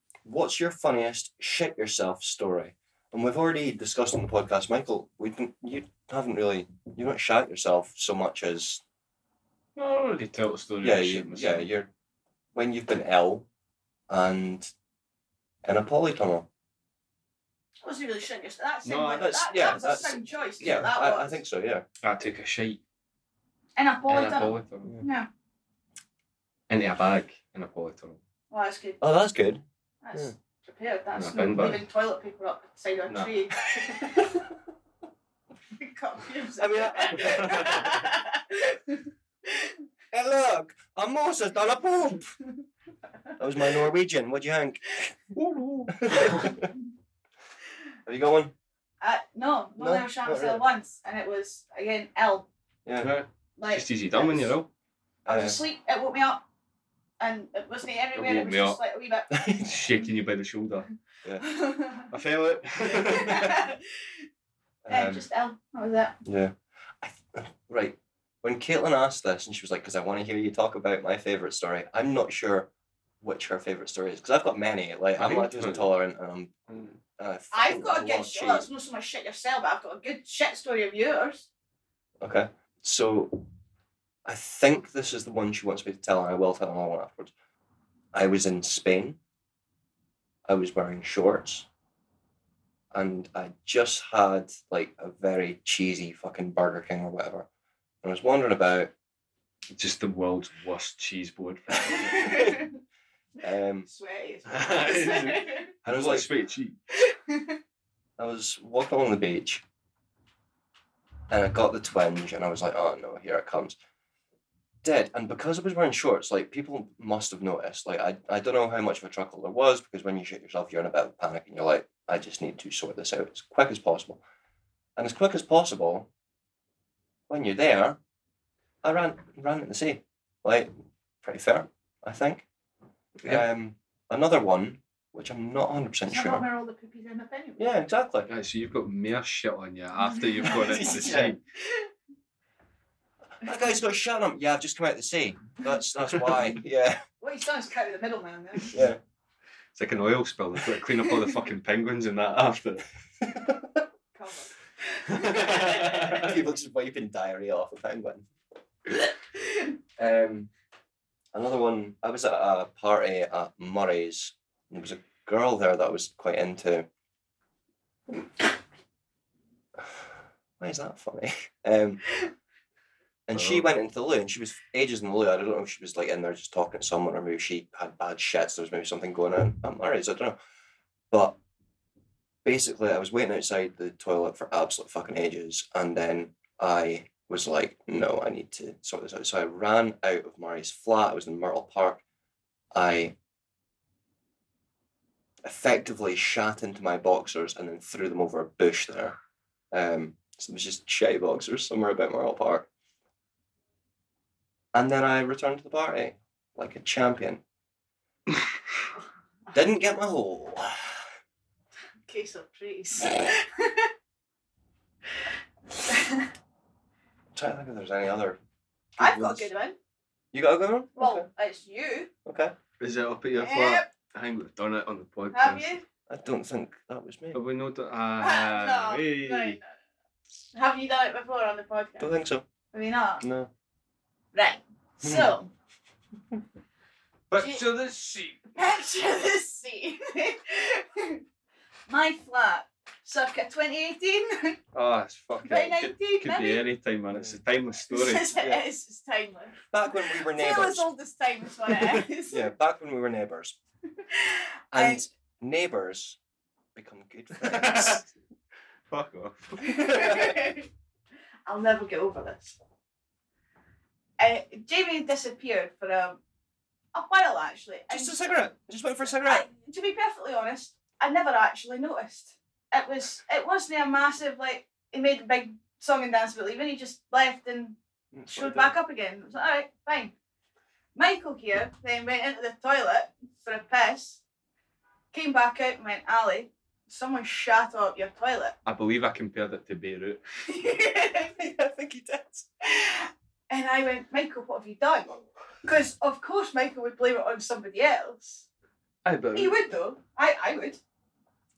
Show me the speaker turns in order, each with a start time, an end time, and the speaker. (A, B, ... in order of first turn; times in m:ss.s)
0:00.2-0:08.8 A
0:09.8-0:11.7 B
0:10.8-0:11.9 A
0:12.5-0:13.4 A
0:14.1-0:14.7 A
0:15.6-0:16.5 A
0:17.8-0:21.4 C
0:18.8-0:19.7 B
0:19.2-0:21.8 A
0:22.0-0:22.8 B
0:23.8-0:25.3 C
0:24.1-0:25.0 B
0:26.7-0:28.2 B
0:28.5-0:29.0 C
0:29.0-0:29.6 A
0:30.0-0:34.2 C
0:31.2-0:31.8 B
0:33.1-0:33.3 B
0:34.0-0:34.2 A
0:35.8-0:39.8 C
0:36.6-0:38.0 A
0:40.1-0:42.4 A
0:43.4-0:45.1 A
0:45.3-0:46.5 B
0:45.9-0:46.7 A
0:48.0-0:48.5 A
0:49.0-0:52.5 C
0:49.8-0:50.6 A
0:52.8-0:53.1 A
0:53.0-0:54.7 B
0:53.6-0:54.6 C
0:55.2-0:55.6 A
0:55.3-0:56.4 C
0:57.2-0:59.4 C
0:58.1-0:58.8 B
0:59.3-0:59.7 A
0:59.6-1:00.9 B
1:01.4-1:02.1 C
1:02.1-1:03.6 B
1:02.9-1:04.1 C
1:04.8-1:05.2 A
1:04.9-1:06.2 C
1:06.2-1:12.7 A
1:13.2-1:16.5 A
1:15.2-1:15.9 B
1:16.7-1:17.0 B
1:17.2-1:18.7 A
1:17.5-1:21.5 C
1:22.2-1:23.4 A
1:24.2-1:27.3 A
1:28.1-1:29.2 A
1:30.4-1:31.7 A
1:32.9-1:37.5 A
1:38.0-1:38.9 A
1:39.7-1:42.5 B
1:42.0-1:42.7 C
1:43.4-1:43.9 A
1:43.8-1:45.7 C
1:44.5-1:46.8 B
1:45.8-1:46.3 A
1:46.9-1:47.6 C
1:48.2-1:49.6 A
1:51.3-1:53.8 A
1:54.8-2:04.2 A
2:05.0-2:06.1 A
2:07.3-2:08.0 A
2:08.8-2:10.7 A
2:11.2-2:12.4 A
2:13.2-2:13.4 B
2:13.2-2:16.4 A
2:16.1-2:17.6 C
2:17.6-2:18.3 A
2:18.3-2:21.4 B
2:20.1-2:20.5 C
2:20.5-2:21.3 A
2:23.4-2:27.0 A
2:27.2-2:28.7 C
2:28.7-2:29.0 A
2:29.7-2:32.8 B
2:33.3-2:33.6 A
2:34.1-2:35.9 C
2:35.2-2:36.2 B
2:35.6-2:38.2 A
2:40.0-2:40.5 A
2:41.3-2:46.9 A
2:50.6-2:52.0 A
2:53.3-3:00.4 A
2:53.3-2:53.7 B
3:01.1-3:01.4 A
3:02.4-3:12.0 A
3:12.7-3:13.1 A
3:15.4-3:19.2 A
3:19.7-3:22.7 A
3:24.7-3:27.4 A
3:29.5-3:31.0 A
3:32.0-3:33.9 C
3:35.9-3:36.2 C
3:37.3-3:38.4 A
3:39.0-3:39.8 C
3:39.0-3:39.4 A
3:40.3-3:41.3 A
3:41.0-3:42.1 C
3:42.2-3:42.5 A
3:42.8-3:45.7 B
3:43.4-3:43.9 C
3:45.3-3:45.8 C
3:46.1-3:47.4 A
3:47.3-3:49.6 B
3:48.2-3:49.7 C
3:50.5-3:52.1 C
3:52.0-3:52.4 A
3:52.7-3:53.2 C
3:53.2-3:53.5 A
3:54.3-3:55.5 C
3:55.0-3:55.3 A
3:57.3-3:58.4 B
3:57.4-3:57.7 C
3:58.5-4:01.2 C
4:01.9-4:04.6 C
4:04.7-4:08.3 B
4:05.4-4:06.6 C
4:07.1-4:07.4 A
4:07.9-4:12.5 C
4:08.4-4:08.6 A
4:09.7-4:10.8 A
4:12.3-4:13.6 A
4:14.1-4:15.0 C
4:14.7-4:16.2 A
4:16.7-4:18.0 A
4:17.4-4:18.1 B
4:18.9-4:20.1 B
4:19.6-4:20.6 C
4:21.5-4:22.6 C
4:24.2-4:26.2 C
4:26.9-4:28.2 C
4:27.9-4:29.4 A
4:29.2-4:37.8 C
4:38.1-4:38.7 A
4:38.3-4:40.1 C
4:40.9-4:44.2 C
4:45.1-4:48.5 C
4:48.6-4:50.2 B
4:50.4-4:51.3 C
4:51.4-4:52.5 A
4:52.6-4:58.4 C
4:59.0-4:59.6 B
4:59.3-5:00.8 C